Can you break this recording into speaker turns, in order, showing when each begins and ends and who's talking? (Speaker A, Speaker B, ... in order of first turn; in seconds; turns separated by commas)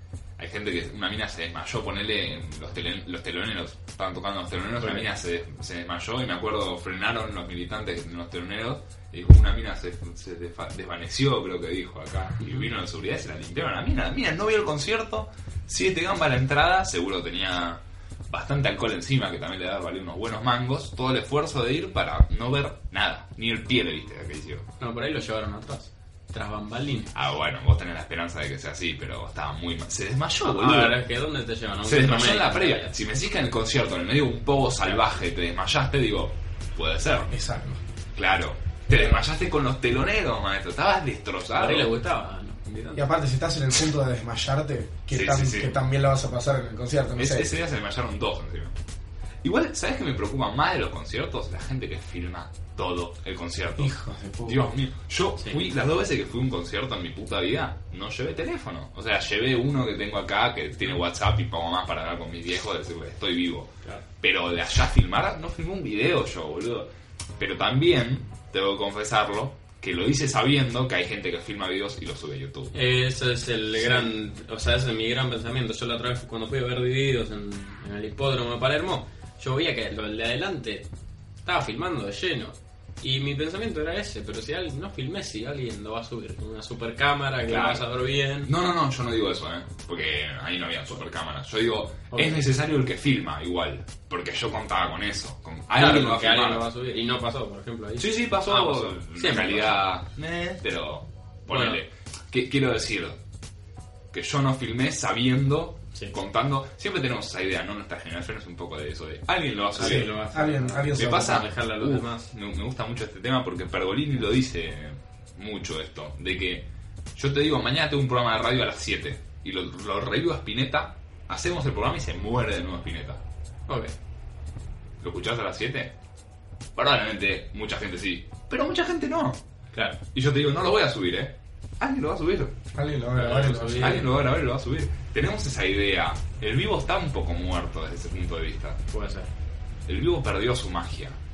Speaker A: 0.4-24.7, Speaker B: 4.8-5.0, Speaker B: 24.8-27.1, Speaker A: 27.1-31.0, Speaker B: 30.4-32.9, Speaker A: 31.8-37.3, Speaker C: 37.3-37.8, Speaker A: 38.1-41.9, Speaker B: 38.9-39.2, Speaker B: 41.5-43.0, Speaker C: 43.0-47.5, Speaker A: 45.1-45.7, Speaker A: 47.1-48.8, Speaker A: 49.4-53.9, Speaker C: 53.8-54.7, Speaker A: 54.4-72.7, Speaker B: 72.7-80.9, Speaker B: 81.4-88.5, Speaker A: 87.5-87.8, Speaker A: 88.4-96.7, Speaker B: 92.1-92.4, Speaker B: 95.8-99.8, Speaker A: 98.0-103.2, Speaker B: 101.5-101.8, Speaker A: 104.1-110.1, Speaker B: 109.8-112.3, Speaker C: 109.8-111.5, Speaker A: 110.9-123.2, Speaker B: 123.7-123.9, Speaker A: 125.0-125.9, Speaker A: 126.8-129.4, Speaker B: 129.7-130.0, Speaker A: 130.1-132.5, Speaker C: 132.7-134.1, Speaker B: 133.1-134.1, Speaker A: 133.8-138.8, Speaker B: 138.9-139.3, Speaker A: 139.9-141.2